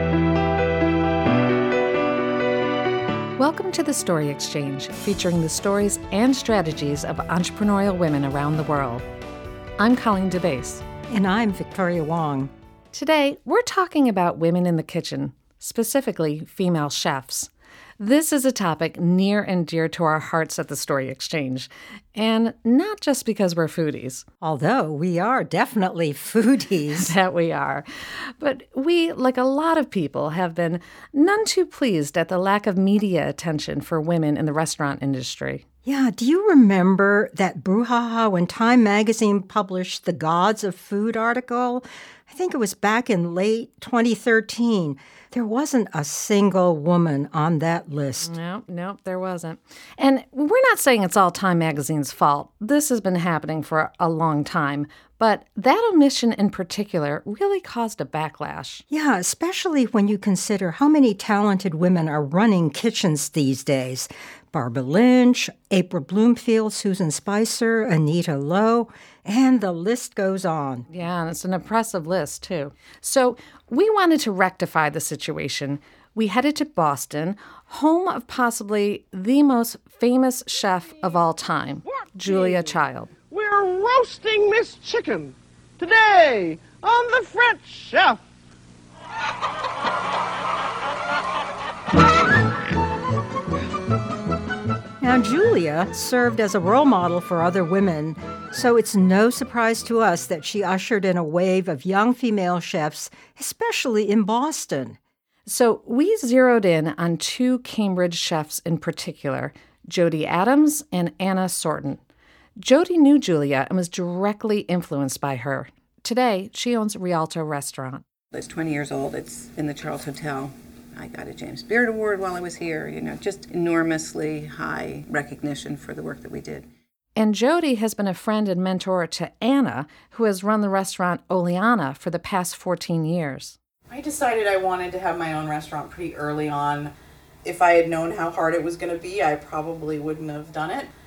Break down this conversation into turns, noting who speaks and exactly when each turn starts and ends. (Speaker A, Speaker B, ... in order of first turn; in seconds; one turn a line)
Speaker A: 3.4-9.1
Speaker A: 9.8-10.8
Speaker B: 11.1-12.5
Speaker A: 12.9-24.2
Speaker B: 24.4-27.1
Speaker A: 26.9-35.6
Speaker B: 35.9-48.3
Speaker A: 48.2-58.8
Speaker B: 58.9-70.9
Speaker A: 70.9-83.2
Speaker C: 82.3-82.6
Speaker C: 83.2-88.2
Speaker B: 95.0-105.0
Speaker A: 105.5-112.0
Speaker A: 112.6-118.0
Speaker D: 118.3-126.7
Speaker A: 127.2-133.6
Speaker E: 133.9-136.9
Speaker E: 137.4-140.9